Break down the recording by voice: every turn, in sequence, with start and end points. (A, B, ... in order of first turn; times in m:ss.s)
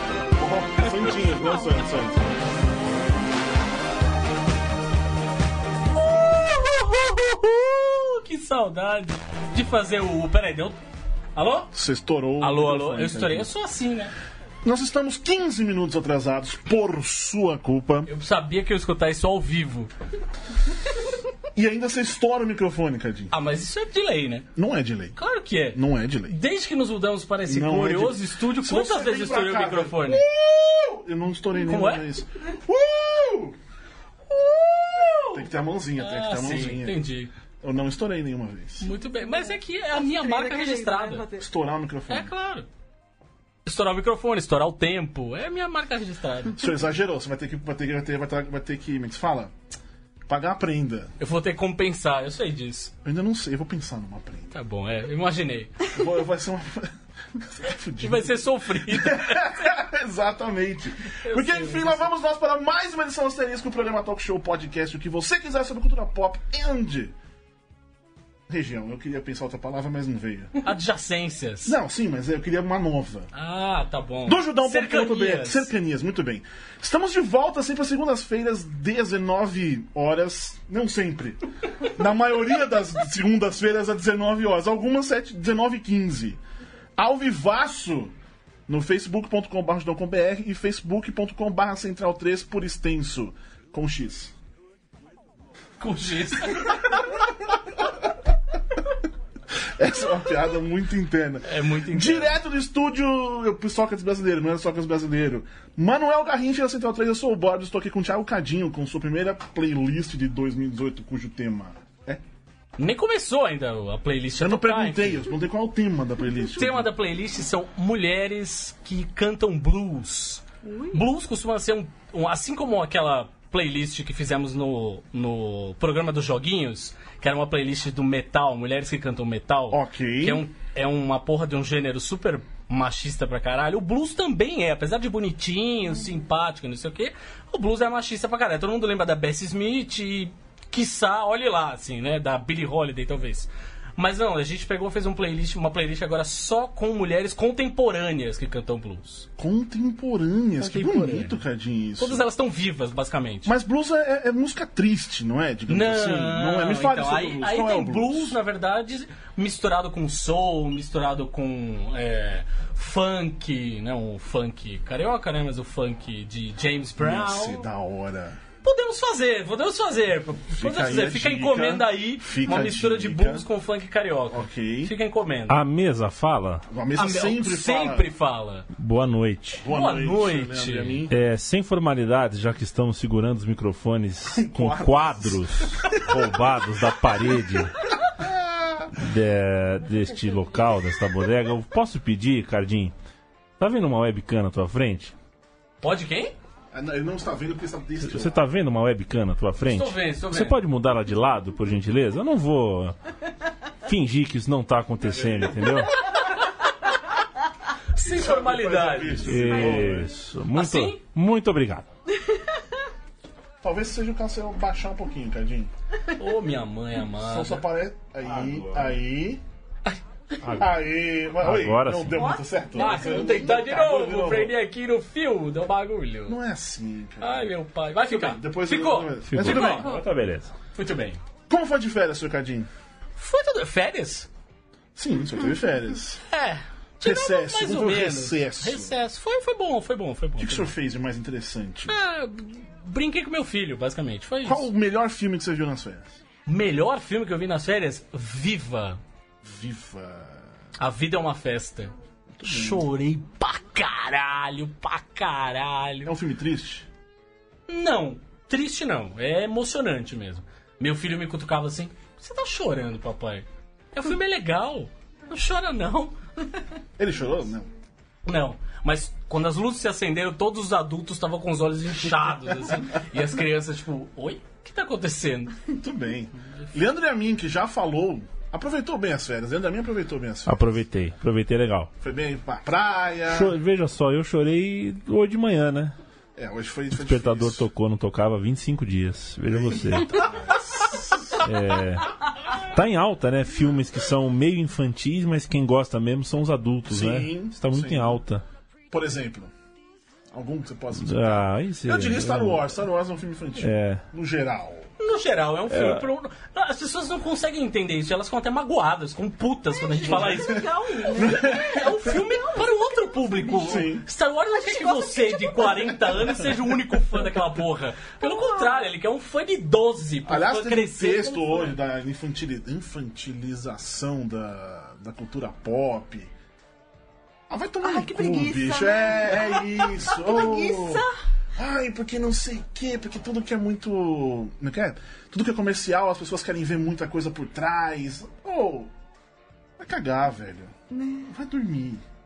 0:00.4-0:02.4 A
0:00.8-0:01.8 B
0:05.9-0:10.8 B
0:11.4-0:11.7 B
0:11.7-0:13.5 A
0:12.4-0:14.1 B
0:14.6-0:18.1 A
0:18.1-0:19.9 B
0:21.5-0:23.3 A
0:23.3-0:24.5 B
0:24.6-0:25.2 A
0:25.2-0:30.2 B
0:25.7-0:26.4 A
0:27.5-0:33.6 A
0:31.6-0:32.1 B
0:34.3-0:35.4 B
0:35.3-0:37.0 A
0:36.0-0:37.3 B
0:37.6-0:38.9 A
0:38.8-0:41.2 B
0:39.2-0:41.4 C
0:41.4-0:42.3 A
0:42.1-0:42.7 B
0:43.6-0:46.6 B
0:46.5-0:49.5 A
0:50.3-0:51.1 A
0:51.2-0:52.9 B
0:53.0-0:54.5 A
0:54.5-0:55.9 B
0:55.8-1:07.1 A
0:58.0-0:59.7 B
1:01.2-1:02.1 B
1:08.5-1:10.6 A
1:10.6-1:11.8 B
1:11.6-1:13.3 A
1:13.3-1:15.7 B
1:14.2-1:26.4 A
1:27.0-1:28.1 A
1:28.7-1:34.3 A
1:35.8-1:37.0 B
1:39.6-1:52.2 A
1:41.4-1:42.4 B
1:52.8-1:55.3 B
1:54.4-1:56.9 A
1:56.6-2:29.3 B
2:00.6-2:01.0 C
2:09.7-2:10.4 A
2:29.4-2:32.2 A
2:30.6-2:31.3 B
2:32.0-2:33.5 B
2:33.4-2:38.4 A
2:35.7-2:47.6 B
2:47.0-2:48.4 A
2:48.6-2:55.6 B
2:50.5-2:53.4 A
2:54.3-2:54.9 A
2:55.5-2:56.6 D
2:56.7-2:58.1 A
2:57.0-2:58.6 B
2:58.7-2:59.6 D
2:59.6-3:01.2 A
2:59.7-3:01.0 B
3:01.1-3:07.8 D
3:04.3-3:06.6 A
3:07.2-3:08.9 A
3:09.0-3:12.9 D
3:13.6-3:15.1 D
3:15.8-3:16.3 B
3:16.7-3:18.4 A
3:18.0-3:23.0 D
3:19.6-3:20.6 B
3:23.8-3:26.0 D
3:25.0-3:25.9 A
3:27.9-3:30.0 B
3:28.0-3:30.1 A
3:29.2-3:31.8 D
3:30.5-3:31.0 B
3:33.6-3:35.7 A
3:36.1-3:37.6 B
3:37.2-3:39.4 A
3:38.2-3:38.9 D
3:40.4-3:40.7 D
3:40.6-3:44.5 A
3:41.4-3:42.3 D
3:42.7-3:46.4 B
3:46.3-3:47.5 A
3:47.2-3:49.9 B
3:48.1-3:49.9 A
3:49.2-3:50.5 D
3:50.7-3:51.2 B
3:51.5-3:52.7 A
3:53.2-3:54.3 B
3:55.0-3:56.2 A
3:56.3-4:00.7 B
3:57.0-3:58.9 A
4:00.4-4:02.0 A
4:01.9-4:04.6 B
4:04.4-4:06.2 A
4:06.4-4:09.0 B
4:09.4-4:10.4 A
4:10.8-4:11.9 B
4:12.4-4:12.8 A
4:12.4-4:16.1 B
4:16.0-4:16.9 A
4:17.7-4:26.1 B
4:27.0-4:27.7 A
4:28.2-4:35.6 B
4:35.8-4:40.8 A
4:40.4-4:41.9 D
4:42.0-4:43.6 A
4:43.3-4:46.0 D
4:46.4-4:47.6 A
4:47.0-4:50.2 D
4:49.5-4:51.4 A
4:51.4-4:58.4 D
4:56.9-4:58.2 A
4:58.9-4:59.5 A
5:00.3-5:04.9 A
5:01.0-5:02.6 D
5:03.6-5:04.0 D
5:05.0-5:21.7 B
5:05.7-5:06.0 D
5:09.9-5:13.9 C
5:10.0-5:10.6 A
5:11.1-5:11.8 A
5:13.6-5:14.0 A
5:14.5-5:16.4 C
5:18.2-5:18.8 C
5:20.2-5:26.3 A
5:27.5-5:31.0 A
5:27.8-5:31.1 C
5:31.6-5:38.9 A
5:39.8-5:40.7 A
5:40.9-5:41.3 C
5:41.2-5:42.0 A